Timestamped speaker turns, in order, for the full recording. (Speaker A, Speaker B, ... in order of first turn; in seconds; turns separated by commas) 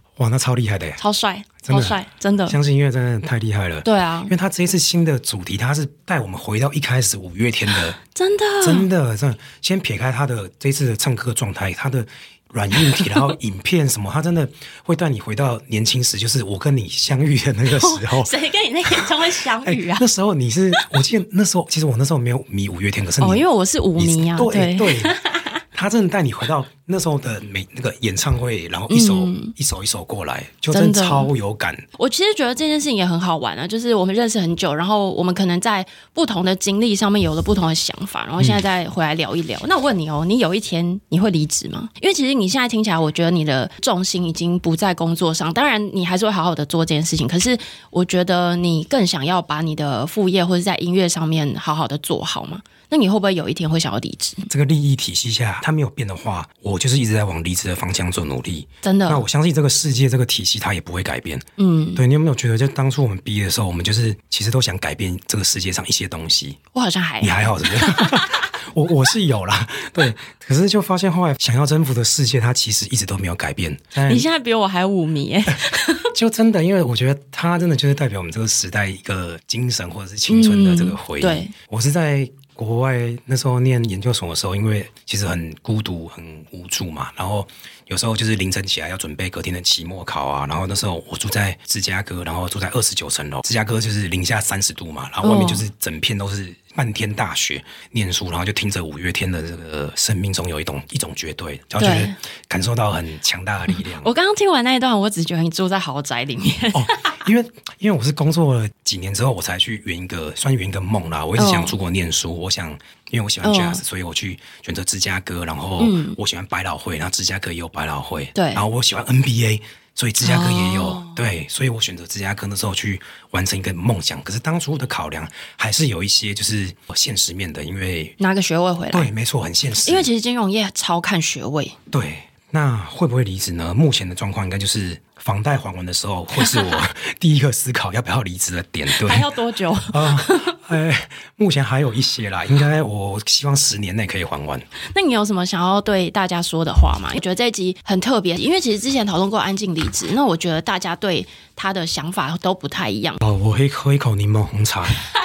Speaker A: 0.1-1.0, Speaker B: 1.0-2.6, Speaker A: 1.6-8.0, Speaker B: 3.8-4.3, Speaker B: 8.0-8.9, Speaker A: 8.6-18.3, Speaker B: 17.7-20.1, Speaker A: 18.9-23.4, Speaker B: 23.2-25.6, Speaker A: 24.0-25.1, Speaker A: 25.7-31.8, Speaker B: 28.9-29.5, Speaker B: 30.7-31.3, Speaker B: 32.0-54.5, Speaker A: 54.5-66.6, Speaker B: 58.8-59.2, Speaker B: 61.6-62.0, Speaker B: 66.7-68.5, Speaker A: 67.2-74.3, Speaker B: 74.1-76.1, Speaker A: 76.1-104.1, Speaker B: 80.3-81.5, Speaker B: 95.2-95.6, Speaker B: 101.8-102.2, Speaker B: 103.9-107.2, Speaker A: 106.7-128.2, Speaker B: 111.4-111.7, Speaker B: 113.4-113.8, Speaker B: 115.8-116.2, Speaker B: 118.3-118.6, Speaker B: 120.2-121.2, Speaker B: 128.2-129.1, Speaker A: 128.9-130.1, Speaker B: 129.8-131.8, Speaker A: 131.9-139.3, Speaker B: 136.4-136.8, Speaker B: 138.9-140.6, Speaker A: 139.9-144.7, Speaker B: 144.9-153.2, Speaker A: 153.2-155.0